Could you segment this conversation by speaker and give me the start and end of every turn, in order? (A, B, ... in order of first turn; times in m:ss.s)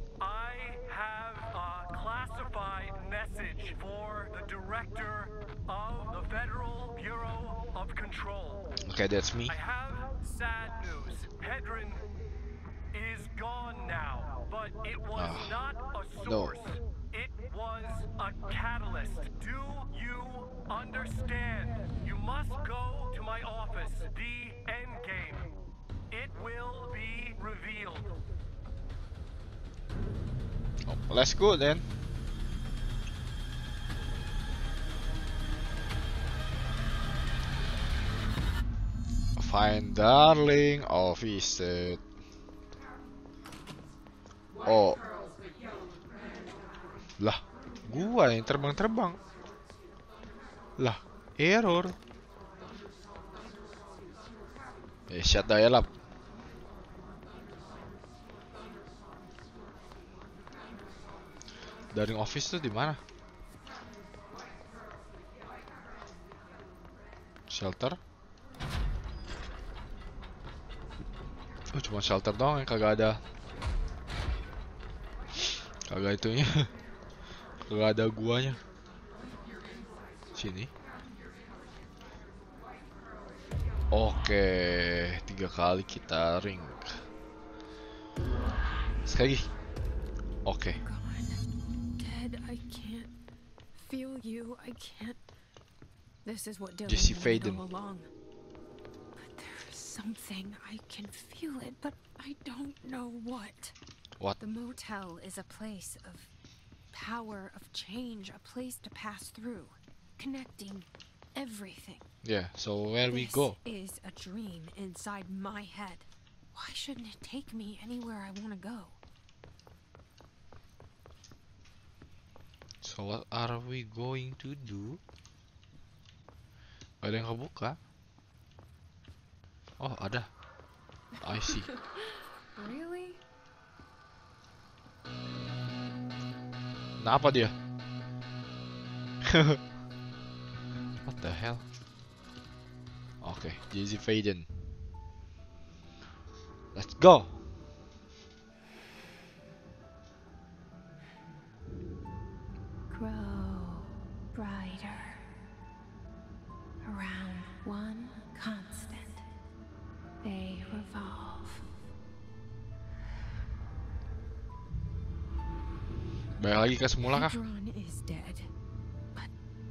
0:00.2-0:08.8 A
0:08.8-0:09.6 B
0:09.5-0:12.0 A
0:12.9-0:25.5 A
0:15.2-0:15.6 B
0:16.2-0:16.6 B
0:26.1-0:28.1 A
0:30.9-0:31.8 B
0:39.4-0:42.0 B
0:44.6-0:45.0 B
0:47.2-0:49.2 B
0:50.8-0:52.0 B
0:55.1-0:55.9 B
1:01.9-1:03.0 B
1:07.5-1:08.0 B
1:11.7-1:13.2 B
1:15.9-1:16.7 B
1:17.7-1:18.6 B
1:20.4-1:20.7 B
1:23.9-1:26.9 B
1:29.1-1:29.5 B
1:30.4-1:30.8 B
1:30.8-1:31.4 C
1:32.0-1:33.1 C
1:33.7-1:35.2 C
1:36.2-1:38.1 C
1:36.9-1:37.6 B
1:39.2-1:43.8 C
1:44.4-1:46.3 C
1:46.9-1:52.1 C
1:52.2-1:53.6 B
1:53.1-1:59.0 C
2:02.8-2:05.0 B
2:07.0-2:07.8 B
2:09.8-2:10.3 B
2:11.2-2:11.7 B
2:11.5-2:13.2 C
2:17.0-2:17.5 B
2:19.3-2:19.6 B
2:21.0-2:21.6 B
2:23.2-2:24.5 B
2:26.8-2:27.4 B
2:32.9-2:35.2 C
2:36.8-2:39.3 C
2:40.2-2:41.6 C
2:46.4-2:47.4 B
2:47.0-2:48.5 C